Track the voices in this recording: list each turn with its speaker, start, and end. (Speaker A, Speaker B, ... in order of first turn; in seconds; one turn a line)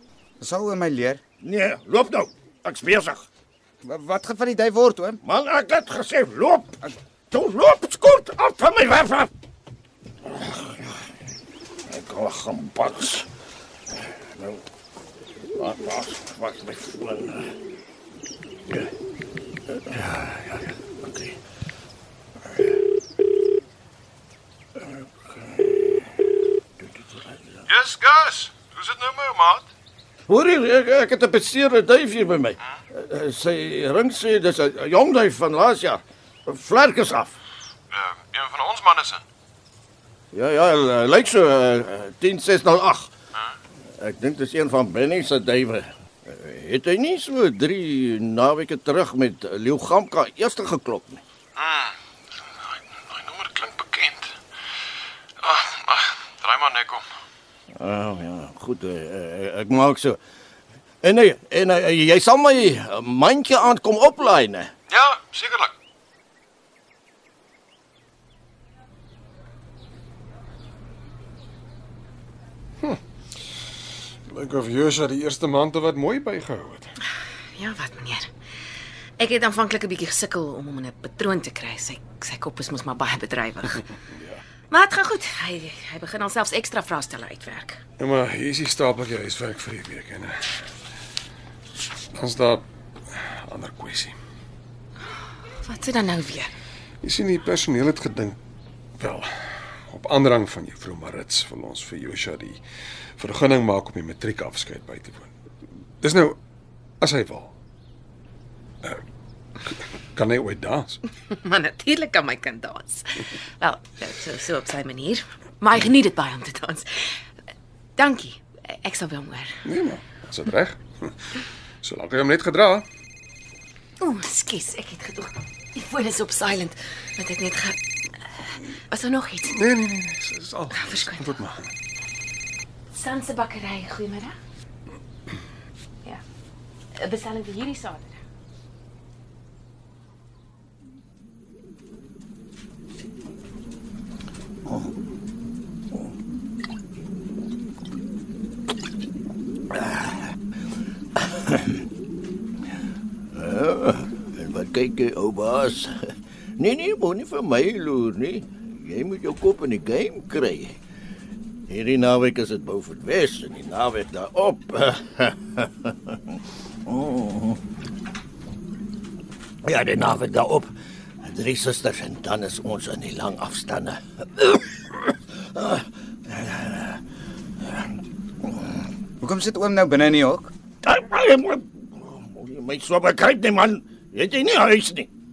Speaker A: 0.4-1.2
Speaker B: 1.4-3.2
Speaker A: 3.8-5.2
Speaker B: 5.2-6.8
Speaker B: 7.3-9.3
Speaker B: 10.3-11.0
Speaker B: 11.9-13.2
Speaker B: 15.6-17.5
Speaker B: 19.9-21.4
Speaker B: 24.8-26.1
Speaker B: 26.8-27.6
Speaker C: 27.7-29.6
Speaker B: 30.3-37.3
Speaker C: 37.9-39.2
Speaker B: 40.3-43.1
Speaker B: 44.0-51.2
Speaker C: 51.6-51.9
Speaker C: 53.1-54.3
Speaker C: 55.4-57.0
Speaker B: 57.7-60.2
Speaker B: 61.0-64.7
Speaker C: 64.9-65.7
Speaker D: 74.3-76.9
Speaker E: 77.5-78.3
Speaker E: 79.2-83.9
Speaker E: 84.7-87.8
Speaker D: 88.0-90.6
Speaker D: 92.1-94.2
Speaker E: 95.6-96.5
Speaker D: 97.0-98.4
Speaker D: 99.0-102.6
Speaker D: 103.2-105.3
Speaker D: 106.0-106.4
Speaker D: 107.0-107.5
Speaker D: 110.1-111.0
Speaker E: 111.3-117.2
Speaker E: 118.0-119.6
Speaker D: 119.6-121.2
Speaker D: 121.8-122.8
Speaker E: 124.0-129.6
Speaker D: 129.5-131.7
Speaker E: 130.7-131.3
Speaker E: 132.9-134.4
Speaker E: 136.9-138.2
Speaker B: 149.7-150.2
Speaker B: 151.2-151.8
Speaker B: 153.3-156.1
Speaker B: 156.6-160.8
Speaker B: 161.7-167.6
Speaker B: 169.6-170.7
Speaker B: 171.2-177.0
Speaker A: 179.2-180.5
Speaker B: 180.8-185.1